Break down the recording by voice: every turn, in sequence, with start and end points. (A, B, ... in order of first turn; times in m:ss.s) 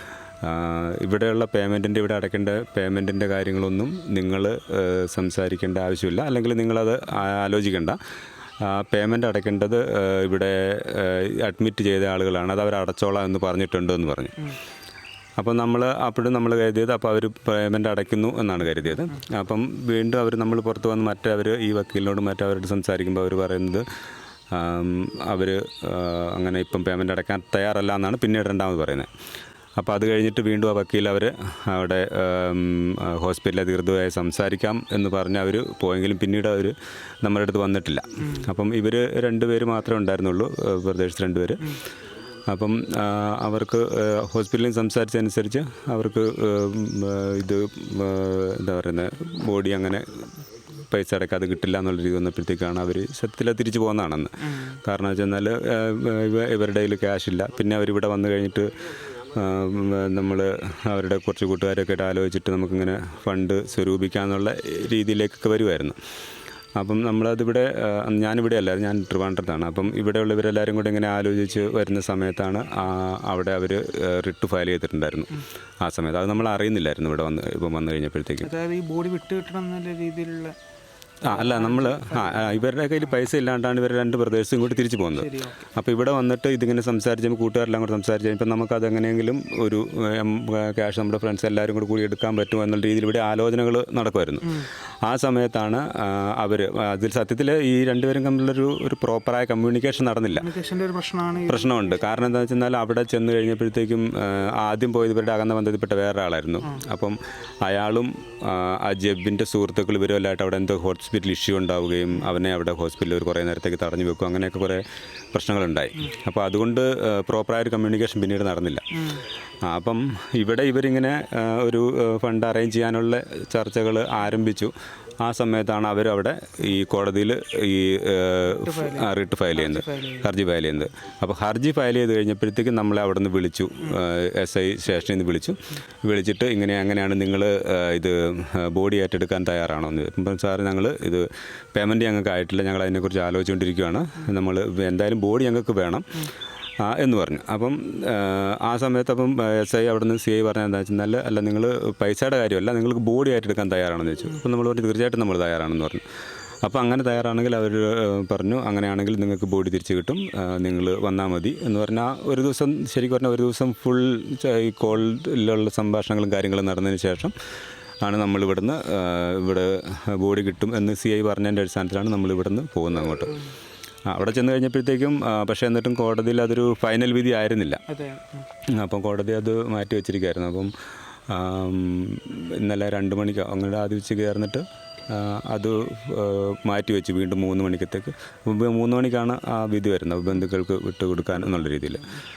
0:00.4-0:08.0 A
0:08.6-0:14.4 A
0:15.4-0:23.8 A
0:24.5-0:29.1 A
0:29.8-0:41.6 A
0:38.2-0:38.5 B
0:42.5-0:50.3 A
0:50.9-0:58.7 A
0:54.4-0:54.8 B
0:59.3-1:06.0 A
1:06.8-1:18.5 A
1:18.4-1:20.5 B
1:21.2-1:22.6 B
1:21.2-1:40.4 A
1:25.1-1:25.6 B
1:40.4-1:42.0 B
1:41.5-1:58.8 A
1:58.9-1:59.2 B
1:59.6-2:26.1 A
2:08.5-2:10.3 B
2:26.8-2:36.0 A
2:36.6-2:47.3 A
2:48.0-2:53.3 A
2:54.1-2:57.8 A
2:57.9-2:58.5 B
2:58.7-3:00.7 A
3:01.3-3:12.1 A